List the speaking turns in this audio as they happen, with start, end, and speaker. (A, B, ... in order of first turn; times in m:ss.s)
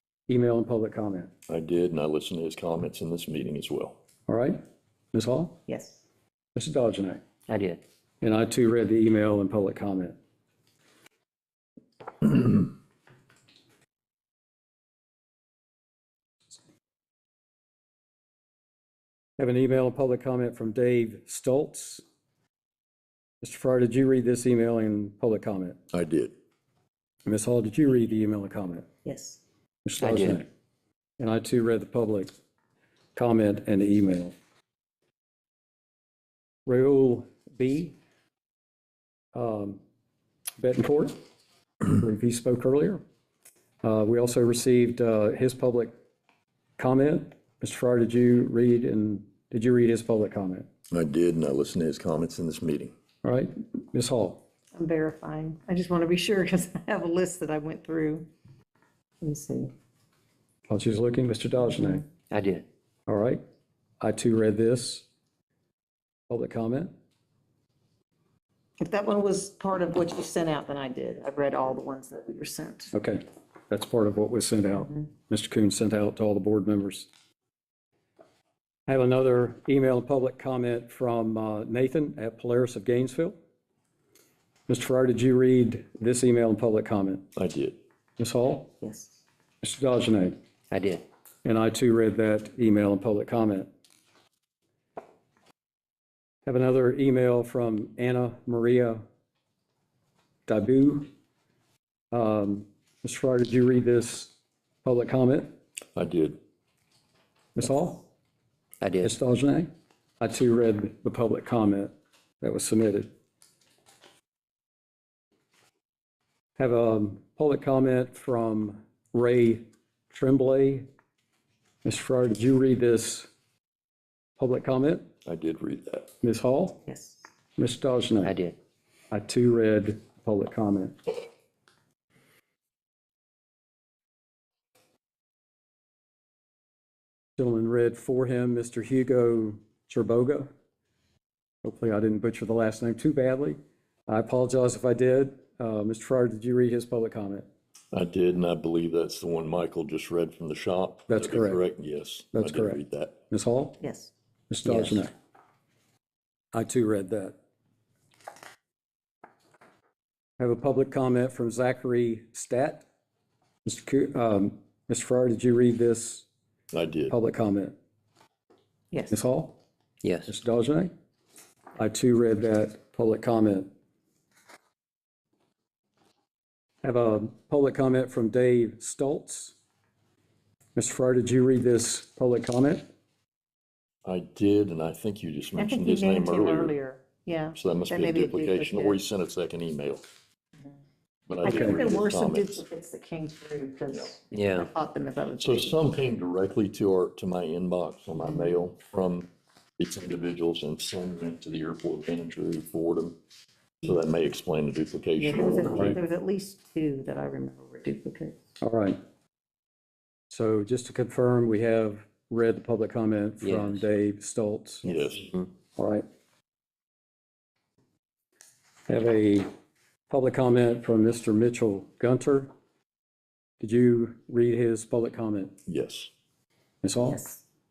0:00.3-0:01.3 A
0:01.5-0:04.0 B
0:04.3-0:04.6 A
0:05.1-0:05.6 A
0:05.7-0:06.0 C
0:06.5-0:07.2 A
0:07.5-0:07.8 D
0:08.2-0:10.2 A
0:19.4-0:22.0 A
0:23.4-0:25.8 A
0:25.9-0:26.3 B
0:27.3-0:28.9 A
0:29.0-0:29.4 C
0:29.8-0:30.5 A
0:30.0-0:30.4 D
0:31.2-0:32.3 A
0:33.2-0:34.3 A
0:36.7-0:38.0 A
0:39.3-0:39.8 A
0:40.6-0:41.2 A
0:41.9-0:43.0 A
0:43.8-0:45.9 A
0:46.8-0:50.7 A
0:50.9-0:52.9 B
0:53.2-0:54.4 A
0:54.8-0:58.3 C
0:59.2-0:59.7 C
1:00.7-1:02.0 A
1:02.3-1:02.6 D
1:03.1-1:03.4 A
1:04.0-1:05.0 A
1:06.3-1:06.9 A
1:08.8-1:12.9 C
1:12.9-1:17.1 A
1:18.9-1:23.4 A
1:24.7-1:27.2 A
1:27.4-1:27.8 B
1:28.2-1:28.7 A
1:28.8-1:29.1 C
1:29.6-1:30.4 A
1:30.7-1:31.0 D
1:31.4-1:33.7 A
1:36.4-1:39.0 A
1:40.5-1:41.1 A
1:42.1-1:45.5 A
1:46.0-1:46.4 B
1:47.5-1:48.1 A
1:48.8-1:49.1 D
1:49.0-1:49.7 A
1:50.2-1:53.1 A
1:56.6-2:00.8 A
2:01.8-2:03.3 A
2:04.4-2:05.1 A
2:05.2-2:06.1 B
2:06.2-2:06.8 A
2:06.9-2:07.2 C
2:07.6-2:08.3 A
2:08.2-2:08.5 D
2:09.1-2:11.0 A
2:17.4-2:20.5 A
2:21.6-2:27.4 A
2:27.9-2:33.2 B
2:31.1-2:31.6 A
2:32.3-2:32.8 A
2:33.3-2:33.8 A
2:33.8-2:34.1 C
2:34.5-2:35.1 A
2:34.7-2:35.0 D
2:36.5-2:37.4 A
2:40.4-2:42.8 A
2:43.6-2:46.2 A
2:46.7-2:47.1 B
2:47.1-2:47.8 A
2:49.1-2:49.6 A
2:50.0-2:50.3 D
2:50.2-2:50.9 A
2:51.8-2:53.7 A
2:56.8-2:59.6 A
3:00.8-3:02.8 A
3:04.0-3:06.7 B
3:05.6-3:09.0 C
3:07.6-3:10.0 B
3:11.3-3:12.6 B
3:11.4-3:15.8 C
3:11.5-3:11.7 A
3:14.3-3:14.7 D
3:15.4-3:23.2 B
3:23.8-3:26.0 B
3:25.2-3:28.4 C
3:28.6-3:29.0 A
3:30.3-3:34.9 A
3:33.4-3:33.8 D
3:34.8-3:35.3 B
3:35.8-3:36.0 A
3:38.9-3:39.5 A
3:40.1-3:42.5 A
3:43.6-3:45.5 A
3:45.7-3:46.1 B
3:46.8-3:47.3 A